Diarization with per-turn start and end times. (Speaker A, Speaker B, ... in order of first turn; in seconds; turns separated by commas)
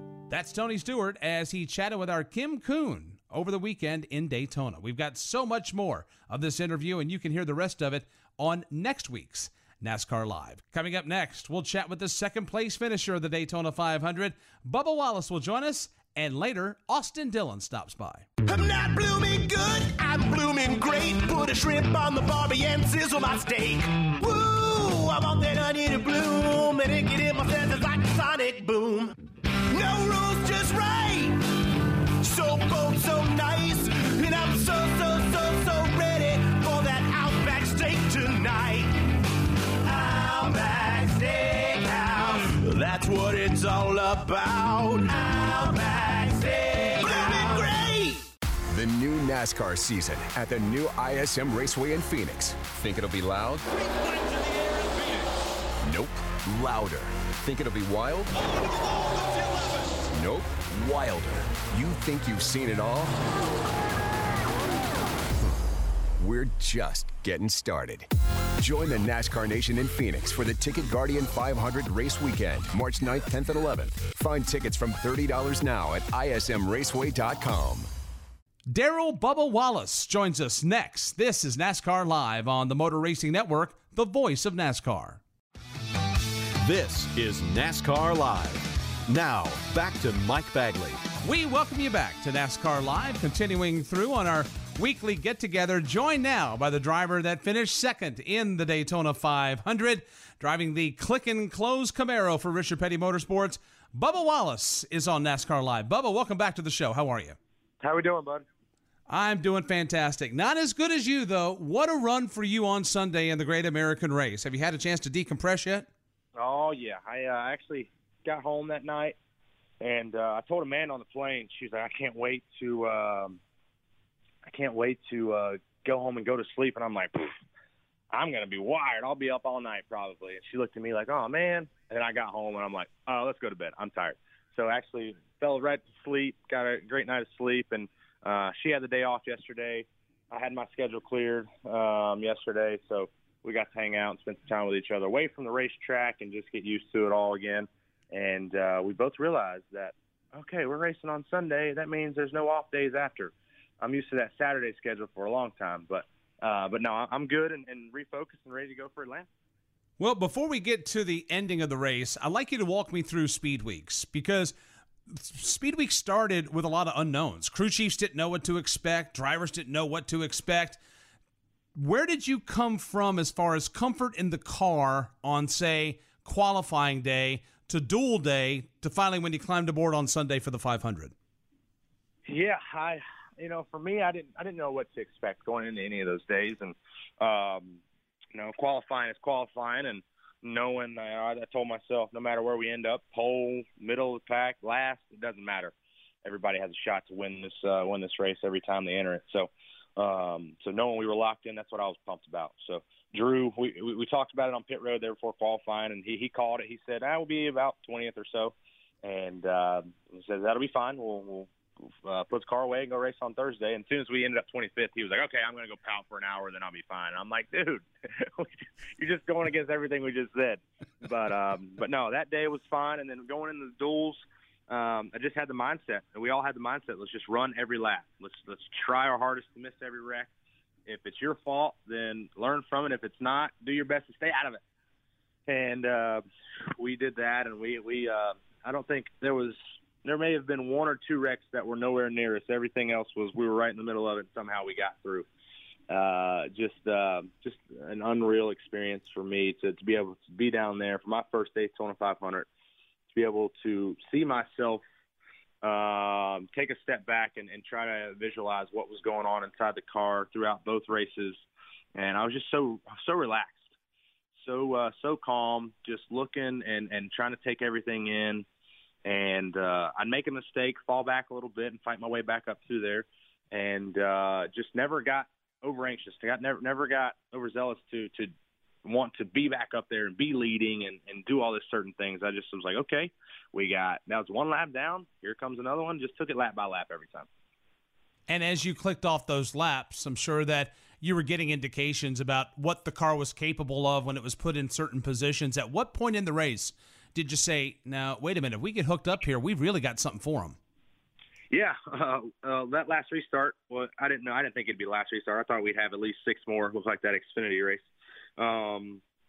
Speaker A: 0.3-18.3, Speaker B: 18.4-29.1, Speaker B: 29.7-31.4, Speaker B: 32.2-39.1, Speaker B: 39.9-48.2, Speaker C: 48.7-53.7, Speaker C: 55.9-58.3, Speaker C: 60.1-63.2, Speaker C: 66.2-68.1, Speaker C: 68.6-77.9, Speaker A: 78.7-85.2, Speaker D: 86.6-91.0, Speaker A: 91.2-107.4, Speaker E: 107.8-108.5, Speaker A: 109.1-115.9, Speaker E: 116.4-119.2, Speaker E: 119.8-123.4, Speaker E: 124.5-127.3, Speaker E: 128.1-159.3, Speaker A: 160.0-164.5, Speaker A: 165.1-170.8, Speaker A: 171.8-181.1, Speaker E: 182.3-187.8, Speaker E: 188.3-195.7, Speaker E: 196.2-211.5, Speaker E: 212.1-217.8, Speaker E: 218.4-230.3, Speaker E: 230.9-234.6, Speaker E: 235.5-236.2, Speaker E: 236.8-245.3, Speaker E: 245.9-252.5, Speaker E: 253.1-254.8, Speaker E: 255.6-261.4, Speaker E: 261.9-263.7, Speaker E: 264.4-268.4, Speaker E: 269.1-278.3, Speaker E: 278.9-287.3, Speaker A: 288.3-300.6, Speaker E: 301.5-307.8, Speaker E: 308.4-309.0